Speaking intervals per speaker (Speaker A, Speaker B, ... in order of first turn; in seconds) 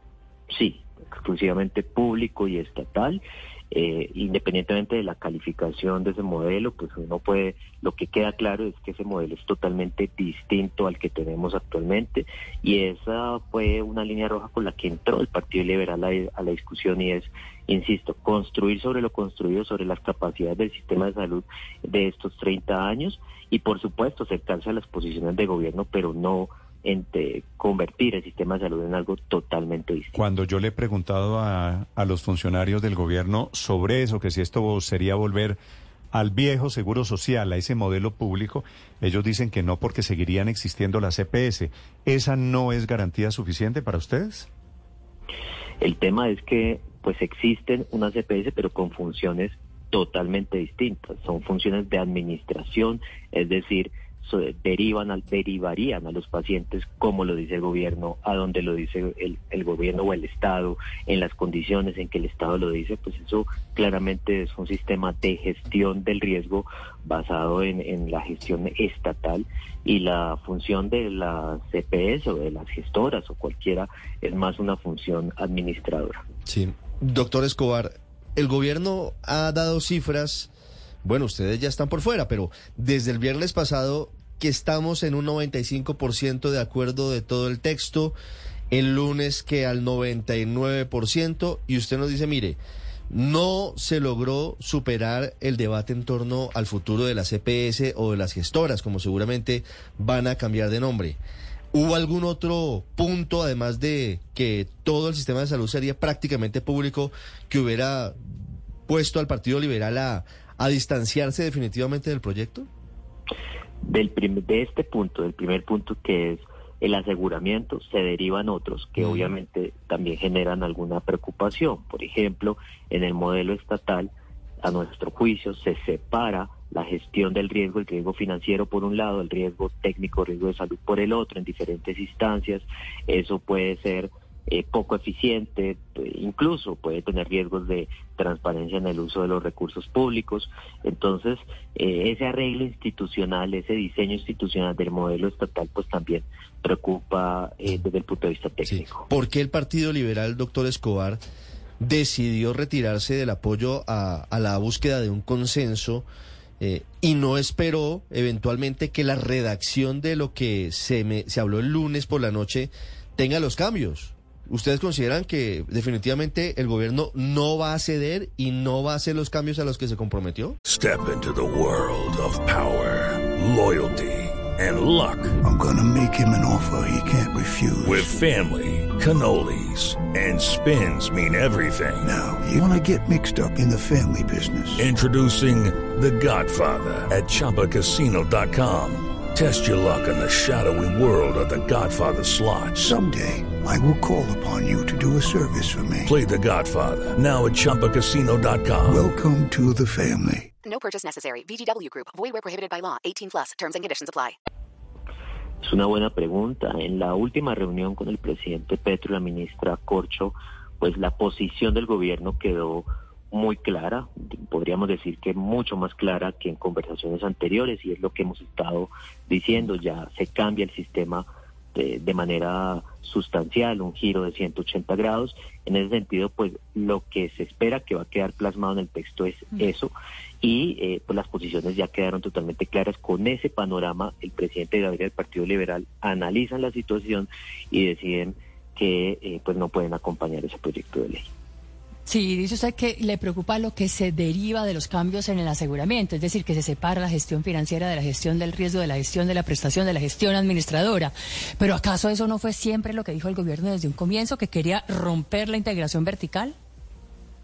Speaker A: 0.5-30.2, 45.8-76.2, 113.8-124.1, 124.6-149.1, 205.6-241.3
Speaker B: 30.2-35.6, 36.1-44.5
Speaker C: 76.5-80.5, 81.0-88.2, 88.7-92.6, 93.1-101.2, 101.7-108.2, 108.9-112.7, 148.7-151.2, 151.8-156.1, 156.6-170.6
Speaker D: 170.7-175.4, 177.8-182.1, 184.8-193.0, 196.1-199.1
Speaker E: 177.7-178.0, 182.1-184.8, 192.8-196.1, 198.9-200.4
Speaker F: 200.6-204.3
Speaker G: 242.1-256.6